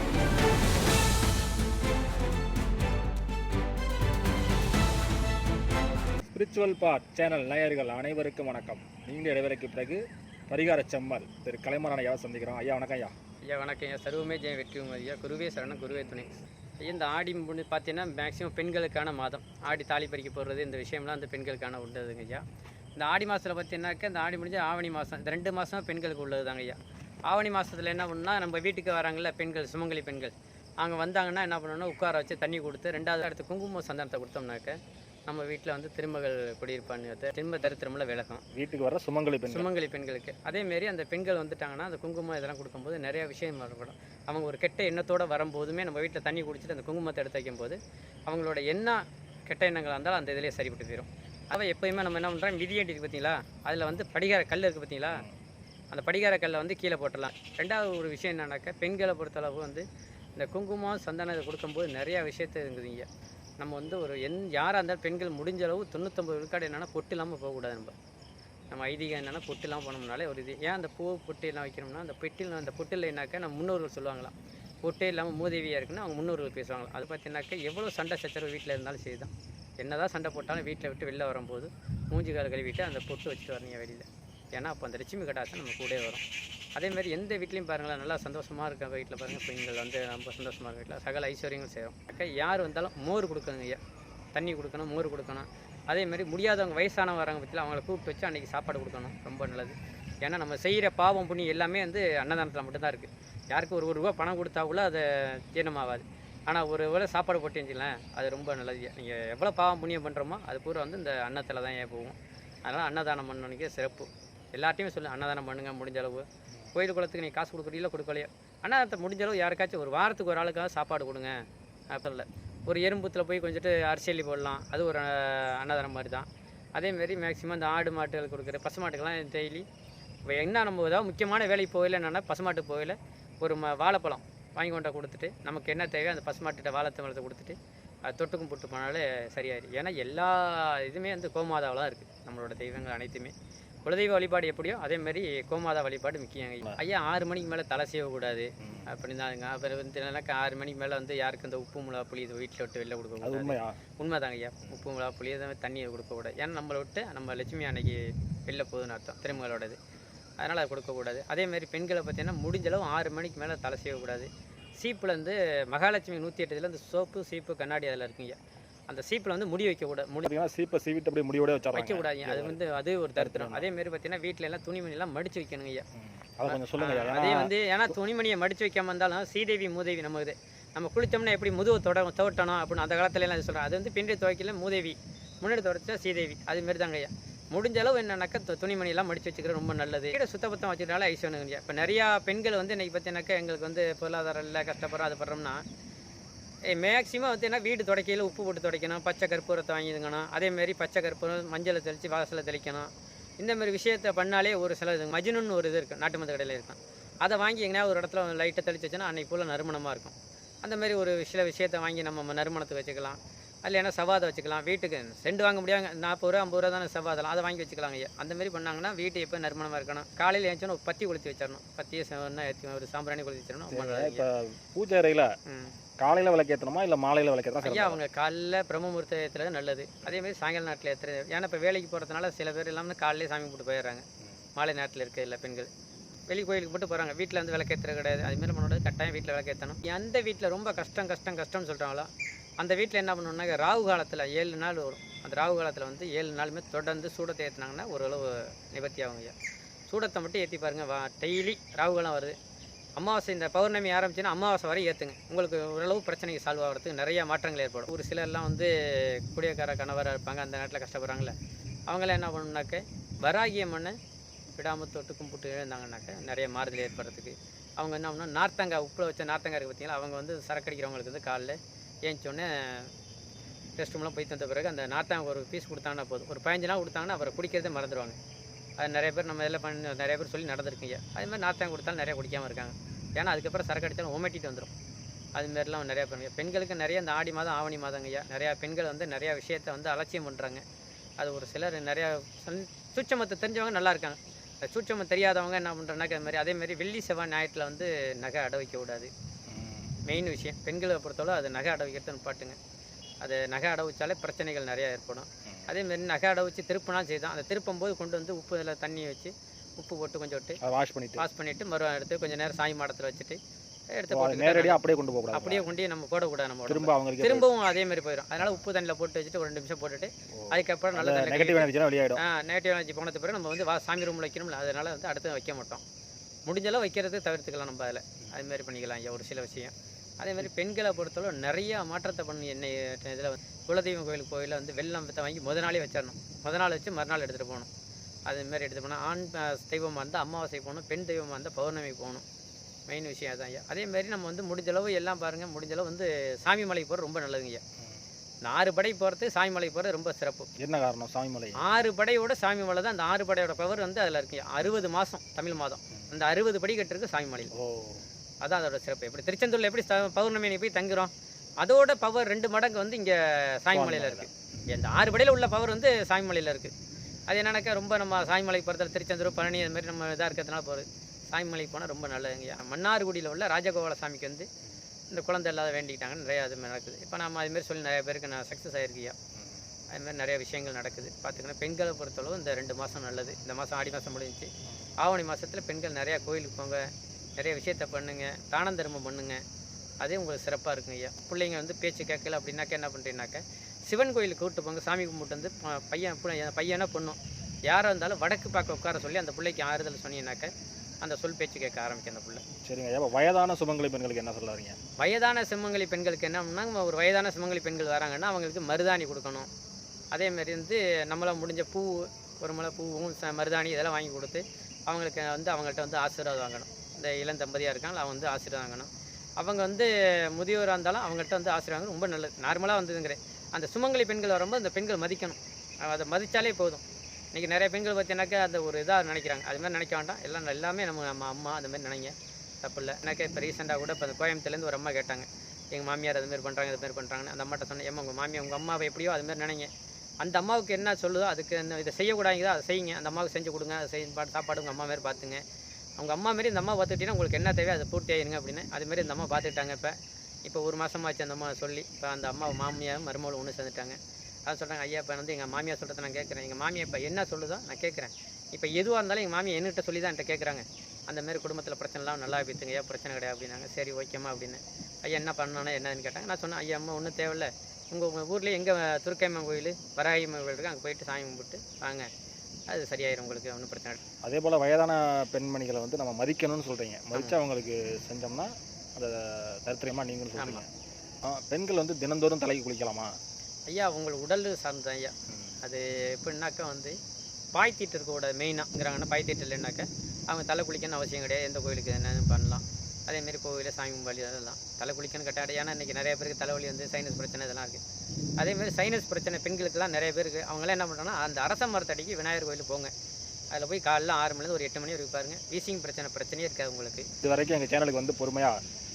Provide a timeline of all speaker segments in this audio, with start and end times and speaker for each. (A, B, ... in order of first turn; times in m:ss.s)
0:06.3-0:13.2 A
0:13.4-0:22.4 B
0:23.0-0:34.8 B
0:35.3-0:38.4 B
0:38.5-0:39.7 A
0:39.5-0:55.2 B
0:55.1-0:55.4 A
0:55.9-0:59.8 B
1:00.4-1:03.1 B
1:03.6-1:08.0 B
1:08.7-1:26.2 B
1:26.8-1:33.8 B
1:34.3-2:09.7 B
2:10.3-2:23.3 B
2:23.8-2:39.8 B
2:28.6-2:28.9 A
2:33.2-2:33.8 A
2:40.4-2:48.4 B
2:48.9-2:50.3 B
2:50.2-2:52.6 A
2:51.7-2:55.8 B
2:53.2-2:53.6 A
2:55.9-2:57.5 A
2:56.5-3:15.6 B
3:16.7-3:44.2 B
3:43.7-3:45.3 A
3:45.5-3:45.7 B
3:46.0-3:48.0 A
3:47.6-3:54.0 B
3:54.6-3:55.7 B
3:56.3-4:09.3 B
4:09.9-4:12.4 B
4:13.0-4:21.3 B
4:21.9-4:24.0 B
4:24.5-4:32.9 B
4:33.8-4:38.2 B
4:38.8-4:44.7 B
4:45.4-4:50.6 B
4:51.2-4:59.1 B
4:59.5-5:00.0 A
5:00.0-5:02.6 B
5:03.2-5:10.6 B
5:10.6-5:11.2 A
5:11.2-5:13.4 B
5:13.9-5:14.8 B
5:14.1-5:15.7 A
5:15.3-5:25.8 B
5:16.7-5:17.5 A
5:20.3-5:22.2 A
5:26.5-5:37.7 B
5:38.3-5:42.2 B
5:42.9-5:47.6 B
5:48.4-5:50.5 B
5:50.6-5:51.6 A
5:51.6-5:57.5 B
5:57.5-5:58.0 A
5:58.4-6:06.7 B
6:03.7-6:04.6 A
6:07.3-6:14.5 B
6:15.1-6:19.2 B
6:19.4-6:19.6 A
6:19.9-6:29.4 B
6:30.0-6:42.4 B
6:42.6-6:44.8 A
6:45.0-6:49.5 B
6:50.1-7:25.4 B
7:26.0-7:52.1 B
7:52.7-7:54.0 B
7:54.2-8:00.7 A
8:00.4-8:00.6 B
8:01.2-8:03.1 A
8:03.7-8:07.0 B
8:05.3-8:05.6 A
8:07.5-8:17.8 B
8:18.4-8:22.9 B
8:23.5-8:27.1 B
8:27.2-8:28.6 A